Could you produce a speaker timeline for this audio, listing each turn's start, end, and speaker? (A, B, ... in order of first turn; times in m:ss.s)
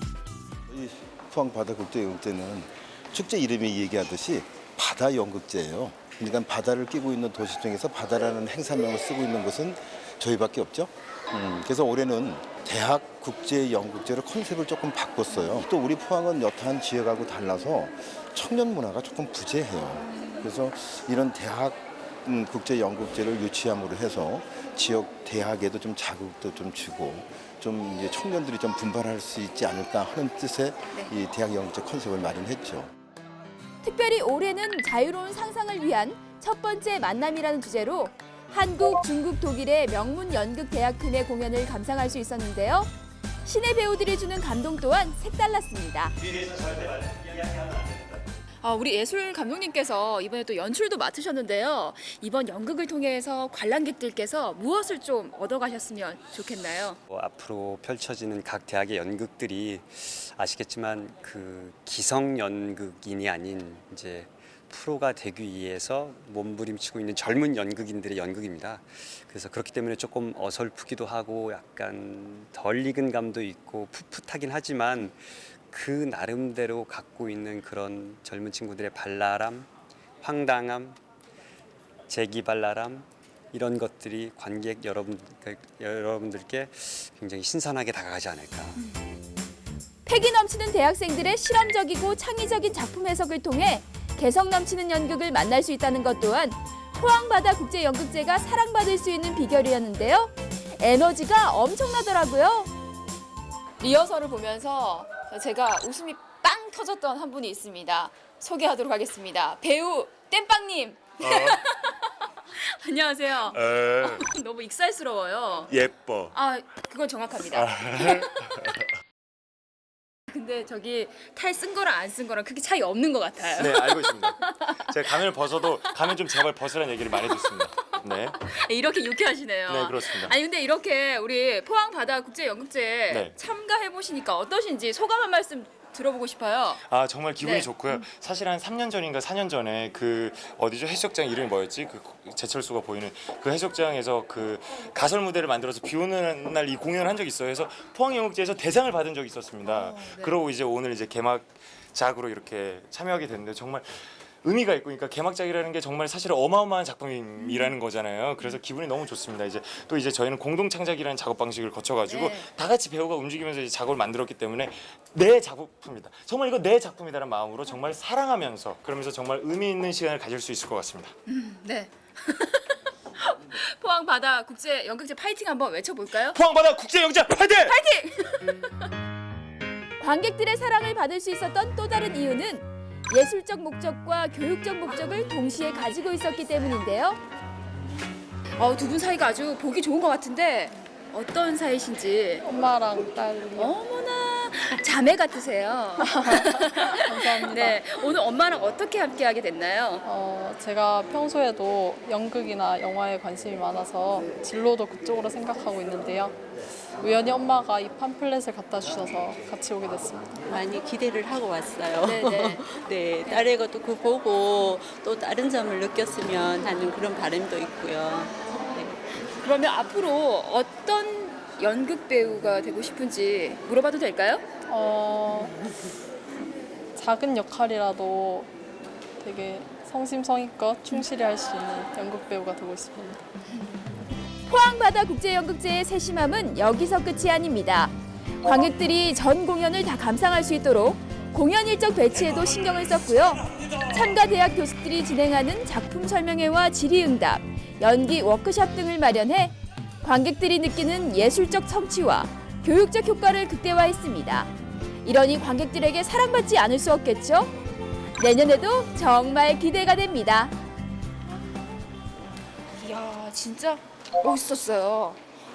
0:00.7-0:32.9 A
0:33.8-0:42.9 B
0:43.4-0:46.1 B
0:48.6-0:57.0 B
0:57.1-1:19.7 C
1:20.2-1:21.0 C
1:22.1-1:28.8 C
1:30.0-1:42.7 B
1:43.8-1:51.9 B
1:51.2-1:51.6 D
1:52.5-1:55.7 B
1:53.5-1:54.3 D
1:55.7-1:56.4 D
1:56.3-1:58.4 B
1:57.5-1:58.8 D
2:00.3-2:05.2 B
2:03.6-2:08.4 D
2:07.2-2:16.8 B
2:09.7-2:10.3 D
2:13.1-2:13.4 D
2:16.8-2:51.1 D
2:17.4-2:18.0 B
2:29.7-2:30.3 B
2:37.4-2:37.7 B
2:42.1-2:42.5 B
2:51.3-2:56.4 B
2:56.3-2:57.8 D
2:57.6-2:58.9 B
3:00.0-3:07.2 B
3:08.6-3:12.4 B
3:12.4-3:13.8 E
3:13.6-3:20.0 B
3:16.0-3:17.8 E
3:20.0-3:30.4 E
3:30.4-3:39.0 F
3:32.0-3:32.6 B
3:39.4-3:44.5 B
3:44.7-3:45.6 E
3:46.9-3:48.5 E
3:49.2-3:53.2 E
3:54.5-4:14.5 B
4:15.0-4:17.6 B
4:18.2-4:20.5 B
4:22.8-4:25.2 B